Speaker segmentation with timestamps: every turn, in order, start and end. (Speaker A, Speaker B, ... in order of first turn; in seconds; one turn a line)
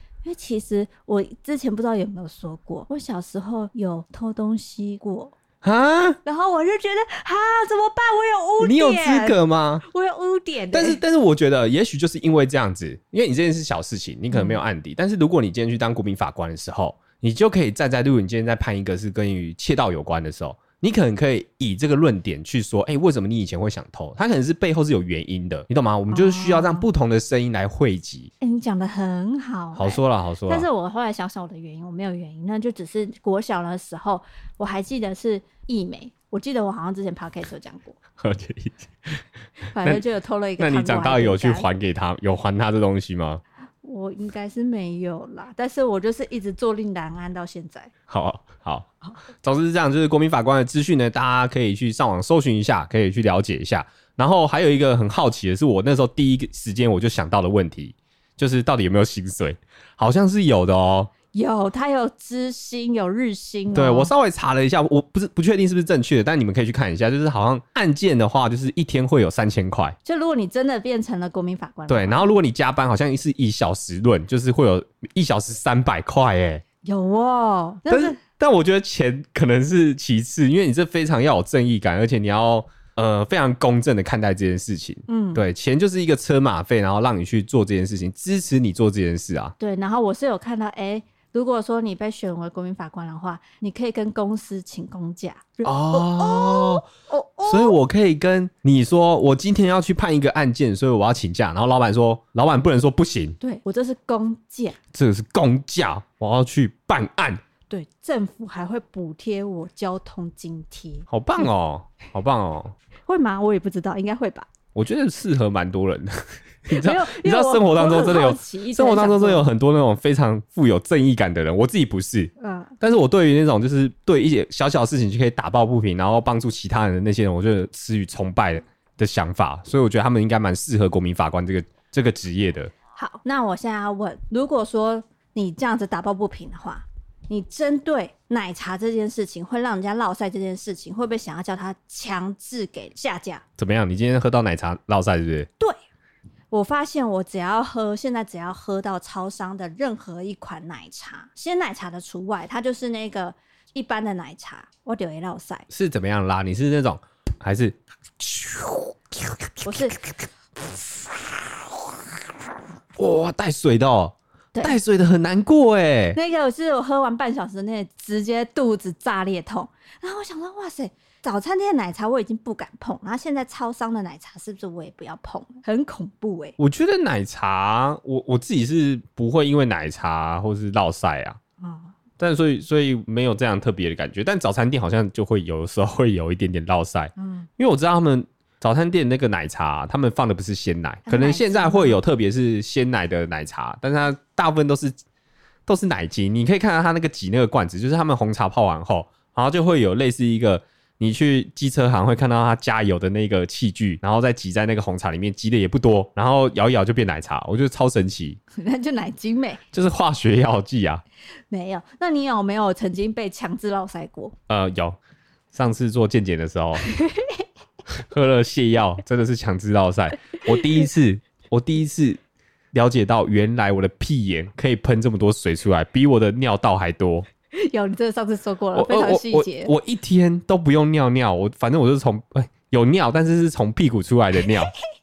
Speaker A: 0.2-5.4
Speaker B: 5.6-6.2
Speaker A: 6.2-11.0
Speaker B: 8.6-9.8
Speaker B: 10.7-28.3
Speaker A: 14.3-14.6
Speaker A: 26.1-26.9
Speaker A: 28.4-38.0
Speaker B: 29.8-30.7
Speaker B: 38.2-39.2
Speaker A: 39.7-41.7
Speaker B: 40.6-43.4
Speaker A: 43.8-47.9
Speaker B: 48.1-48.9
Speaker B: 49.4-61.1
Speaker A: 61.3-64.1
Speaker B: 63.7-70.0
Speaker A: 70.0-72.3
Speaker B: 71.9-76.6
Speaker A: 76.8-78.2
Speaker B: 77.9-89.5
Speaker A: 85.1-85.4
Speaker A: 89.6-97.8
Speaker B: 95.6-96.9
Speaker B: 97.5-103.4
Speaker A: 103.4-104.8
Speaker B: 104.9-107.4
Speaker A: 107.7-111.5
Speaker B: 111.1-112.8
Speaker A: 113.1-114.5
Speaker B: 114.8-132.7
Speaker A: 116.7-119.5
Speaker A: 122.4-122.8
Speaker A: 132.9-143.4
Speaker B: 143.6-145.5
Speaker A: 146.5-155.7
Speaker B: 155.7-159.9
Speaker A: 159.6-160.0
Speaker B: 160.7-161.8
Speaker B: 163.0-166.2
Speaker A: 166.2-176.6
Speaker B: 176.6-181.4
Speaker A: 181.6-181.9
Speaker B: 182.2-194.9
Speaker A: 187.2-187.5
Speaker A: 191.1-192.0
Speaker B: 195.7-208.4
Speaker A: 208.6-209.6
Speaker B: 209.7-211.0
Speaker A: 211.5-214.3
Speaker B: 214.5-215.0
Speaker B: 215.5-216.9
Speaker A: 216.9-217.4
Speaker B: 218.1-222.2
Speaker B: 222.7-227.3
Speaker A: 227.6-229.7
Speaker B: 228.7-234.7